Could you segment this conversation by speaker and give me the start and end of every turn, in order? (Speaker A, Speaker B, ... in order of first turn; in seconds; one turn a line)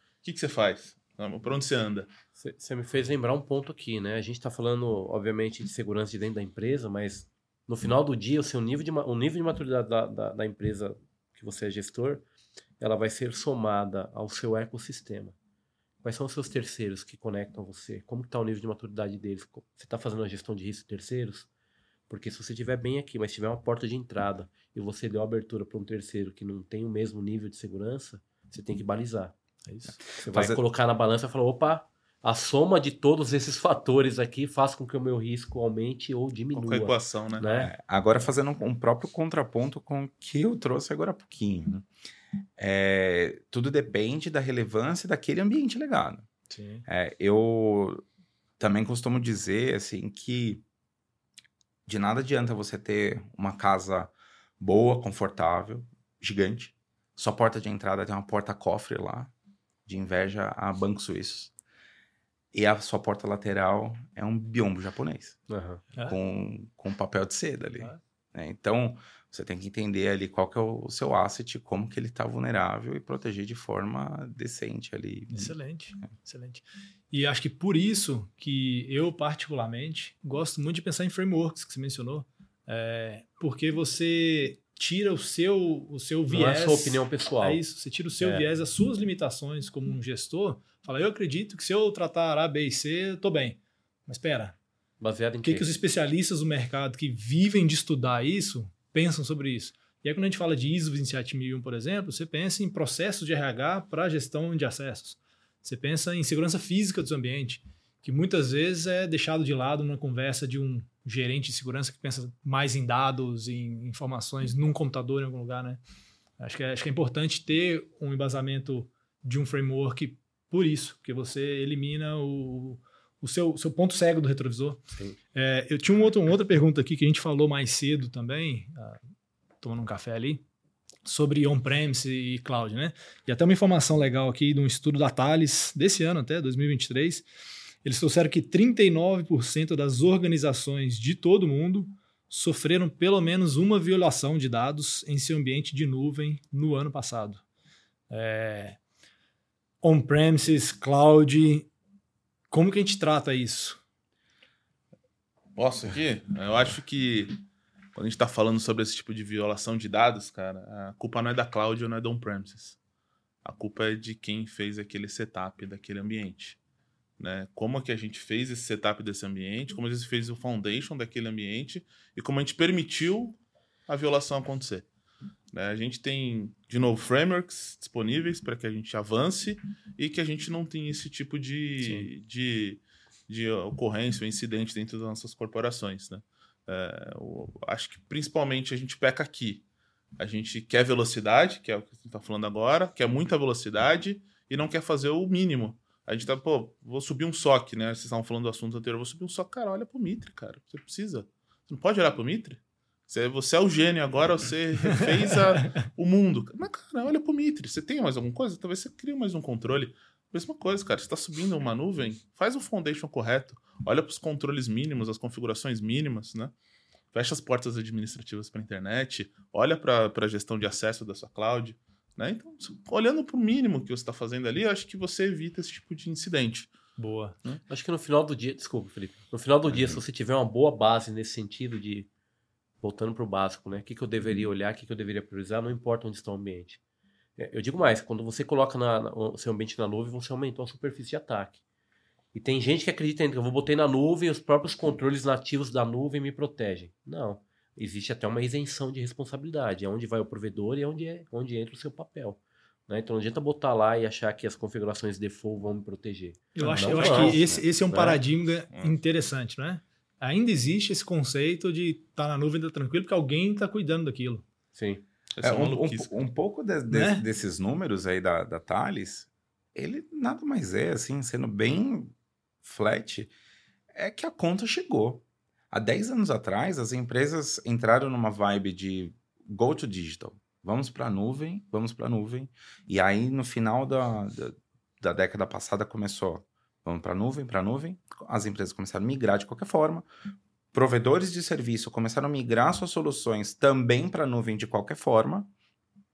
Speaker A: 0.2-2.1
Speaker B: 2.4-12.2
Speaker B: 12.8-15.3
Speaker B: 16.0-21.5
Speaker B: 22.1-29.3
Speaker C: 29.7-30.0
Speaker B: 30.1-37.7
Speaker D: 30.2-30.6
Speaker A: 36.5-37.6
Speaker D: 37.5-41.9
Speaker D: 42.6-46.3
Speaker C: 46.5-46.9
Speaker D: 46.9-48.0
Speaker D: 48.6-50.6
Speaker D: 51.9-59.3
Speaker D: 59.9-61.5
Speaker D: 62.5-65.5
Speaker B: 65.5-65.8
Speaker D: 66.0-75.6
Speaker C: 75.3-94.5
Speaker B: 86.3-87.6
Speaker B: 88.2-88.5
Speaker B: 95.0-95.7
Speaker C: 95.4-115.8
Speaker C: 116.4-129.0
Speaker C: 129.6-130.4
Speaker C: 131.1-137.3
Speaker C: 137.8-147.4
Speaker C: 148.1-148.8
Speaker C: 149.8-151.7
Speaker C: 152.5-153.8
Speaker A: 155.6-157.4
Speaker A: 157.9-162.8
Speaker A: 163.4-166.6
Speaker A: 167.2-174.9
Speaker A: 175.5-189.6
Speaker C: 181.8-182.1
Speaker A: 190.2-216.5
Speaker A: 217.1-226.7
Speaker C: 227.0-227.4
Speaker B: 227.7-232.1
Speaker D: 229.7-230.0
Speaker B: 232.8-236.8
Speaker B: 237.4-241.6
Speaker B: 242.3-258.2
Speaker C: 256.6-264.4
Speaker D: 256.9-257.6
Speaker A: 258.7-259.0
Speaker B: 264.7-265.0
Speaker A: 265.4-266.3
Speaker D: 265.4-273.3
Speaker C: 266.9-267.2
Speaker D: 273.9-290.1
Speaker D: 290.7-295.5